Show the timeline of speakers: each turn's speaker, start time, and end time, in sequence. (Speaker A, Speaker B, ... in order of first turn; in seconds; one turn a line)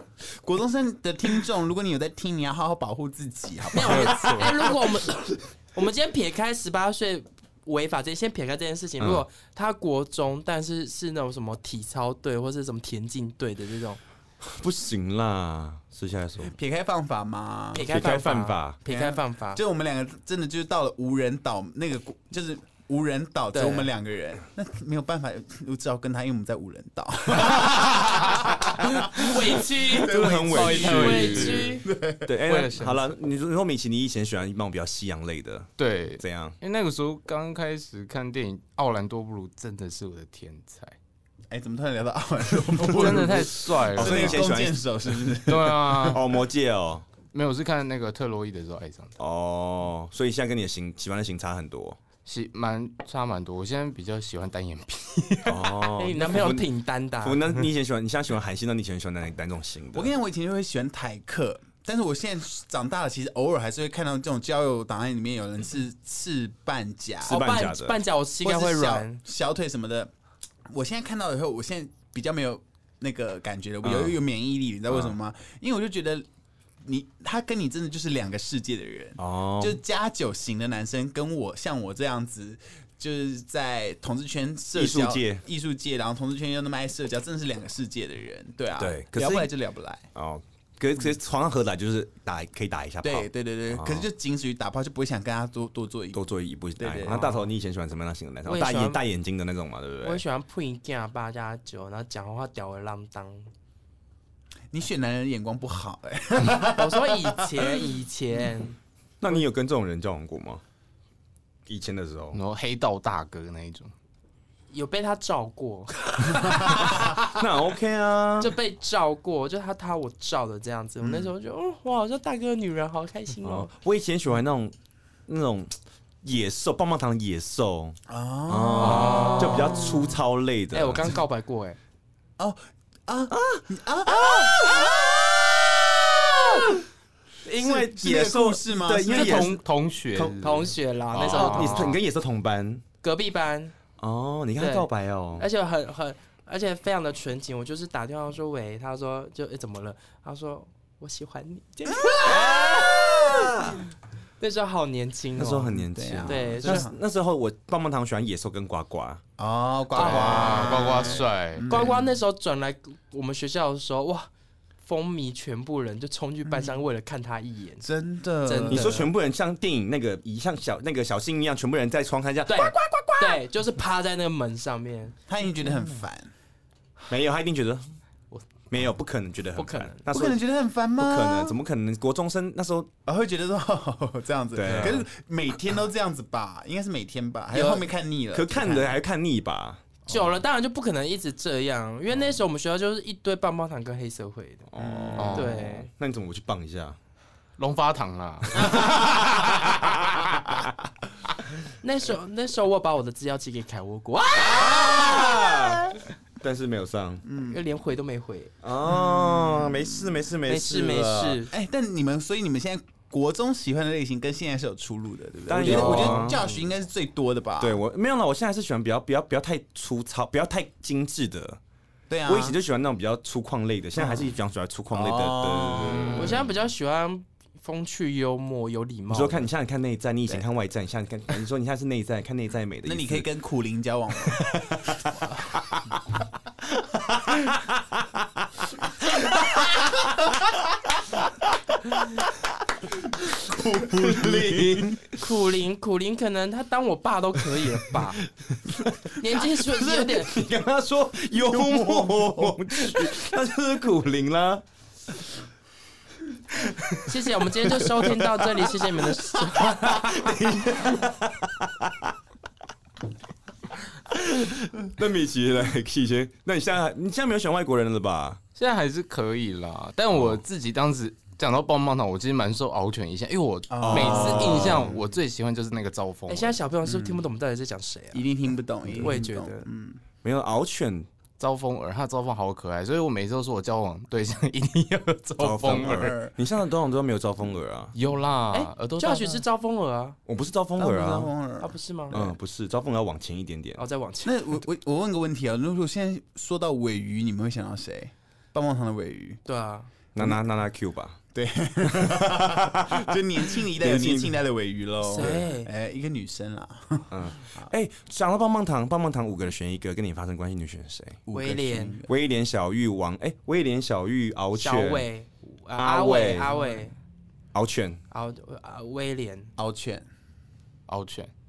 Speaker A: 0.4-4.8
Speaker B: 3.7-14.0
Speaker C: 3.8-4.5
Speaker D: 9.0-9.2
Speaker D: 14.4-16.5
Speaker A: 16.4-17.9
Speaker B: 17.7-19.6
Speaker D: 17.9-18.8
Speaker A: 18.9-30.9
Speaker B: 23.5-23.9
Speaker B: 29.1-31.8
Speaker D: 29.9-36.6
Speaker C: 30.4-31.8
Speaker A: 31.7-32.3
Speaker C: 32.5-33.1
Speaker C: 35.8-41.0
Speaker A: 41.5-46.2
Speaker C: 42.8-44.5
Speaker D: 43.1-44.8
Speaker C: 45.4-46.2
Speaker D: 46.0-47.0
Speaker C: 47.3-49.2
Speaker D: 49.2-52.0
Speaker C: 52.2-55.8
Speaker D: 55.4-56.7
Speaker B: 56.0-57.4
Speaker D: 57.2-60.1
Speaker A: 59.9-67.4
Speaker D: 67.2-68.0
Speaker B: 67.2-69.2
Speaker A: 68.4-70.1
Speaker A: 70.7-76.2
Speaker D: 73.8-74.2
Speaker A: 76.8-90.1
Speaker D: 79.2-79.8
Speaker D: 84.7-85.4
Speaker D: 88.8-89.5
Speaker D: 90.1-94.1
Speaker A: 93.0-96.2
Speaker D: 96.1-100.2
Speaker A: 96.8-97.2
Speaker B: 97.1-97.5
Speaker B: 98.4-99.0
Speaker B: 100.0-103.5
Speaker A: 104.7-107.8
Speaker B: 106.6-108.8
Speaker D: 109.2-110.6
Speaker D: 111.7-112.4
Speaker C: 112.3-113.9
Speaker B: 114.7-117.5
Speaker D: 117.0-118.5
Speaker B: 118.4-123.7
Speaker A: 121.0-121.3
Speaker D: 123.4-124.7
Speaker D: 125.3-128.0
Speaker A: 128.1-130.2
Speaker D: 128.5-131.2
Speaker B: 128.8-129.9
Speaker B: 130.7-131.8
Speaker A: 132.4-135.2
Speaker D: 133.3-135.1
Speaker D: 136.2-136.7
Speaker D: 137.4-139.6
Speaker A: 137.6-139.6
Speaker C: 139.1-140.7
Speaker D: 140.1-142.8
Speaker B: 140.4-142.0
Speaker C: 141.3-141.8
Speaker B: 143.0-143.7
Speaker D: 144.0-145.5
Speaker B: 144.6-153.6
Speaker A: 151.9-153.4
Speaker D: 152.2-153.6
Speaker B: 154.4-156.9
Speaker D: 155.4-159.2
Speaker A: 155.6-156.9
Speaker A: 159.4-162.1
Speaker B: 159.9-164.3
Speaker C: 159.9-161.9
Speaker B: 164.8-167.8
Speaker A: 166.4-166.8
Speaker A: 167.8-169.1
Speaker B: 168.4-169.1
Speaker D: 168.7-173.4
Speaker B: 172.5-175.2
Speaker A: 175.3-176.3
Speaker D: 177.1-177.9
Speaker D: 178.7-180.4
Speaker B: 179.6-180.0
Speaker A: 180.1-181.6
Speaker D: 181.0-182.9
Speaker A: 183.1-189.0
Speaker D: 184.5-185.1
Speaker B: 187.5-187.8
Speaker D: 188.3-189.8
Speaker A: 190.1-190.3
Speaker B: 190.1-194.7
Speaker D: 194.7-197.0
Speaker A: 194.8-195.4
Speaker C: 195.2-195.6
Speaker B: 195.3-195.9
Speaker C: 197.6-199.8
Speaker D: 198.6-199.9
Speaker B: 201.8-205.3
Speaker D: 204.3-207.2
Speaker A: 207.2-207.6
Speaker B: 207.5-208.5
Speaker D: 208.6-211.4
Speaker A: 208.8-210.2
Speaker B: 210.4-211.5
Speaker A: 211.5-217.8
Speaker D: 215.5-216.4
Speaker C: 215.7-216.4
Speaker D: 217.6-221.6
Speaker A: 222.1-222.6
Speaker D: 222.2-226.4
Speaker A: 224.0-224.3
Speaker A: 224.9-226.4
Speaker B: 226.1-229.5
Speaker D: 229.1-233.2
Speaker A: 232.8-234.5
Speaker D: 234.4-235.8
Speaker D: 237.1-237.7
Speaker A: 243.3-245.0
Speaker D: 243.9-245.2
Speaker B: 245.2-248.2
Speaker D: 248.6-254.6
Speaker B: 249.2-250.3
Speaker A: 251.5-253.2
Speaker D: 256.6-262.1
Speaker B: 257.0-260.1
Speaker D: 264.1-268.4
Speaker C: 268.6-276.6
Speaker A: 273.7-274.9
Speaker D: 273.8-274.9
Speaker B: 276.3-278.3
Speaker A: 276.8-277.3
Speaker A: 278.1-280.0
Speaker B: 279.0-279.6
Speaker D: 280.2-281.1
Speaker C: 281.4-286.1
Speaker D: 285.4-287.9
Speaker A: 285.6-286.3
Speaker C: 287.9-289.4
Speaker B: 288.5-290.2
Speaker D: 290.3-291.3
Speaker A: 290.8-292.4
Speaker B: 291.6-292.2
Speaker D: 292.1-293.8
Speaker B: 293.8-294.4
Speaker A: 294.2-299.4
Speaker B: 299.4-299.9
Speaker D: 300.1-301.2
Speaker A: 300.2-300.4
Speaker A: 301.3-307.7
Speaker D: 302.1-302.9
Speaker D: 303.5-304.4
Speaker B: 305.0-305.7
Speaker D: 307.1-311.2
Speaker A: 311.3-312.1
Speaker B: 311.3-312.0
Speaker D: 312.1-315.1
Speaker B: 314.6-316.9
Speaker D: 315.8-316.5
Speaker D: 317.5-318.0
Speaker B: 318.1-319.5
Speaker A: 319.6-320.1
Speaker C: 320.9-321.3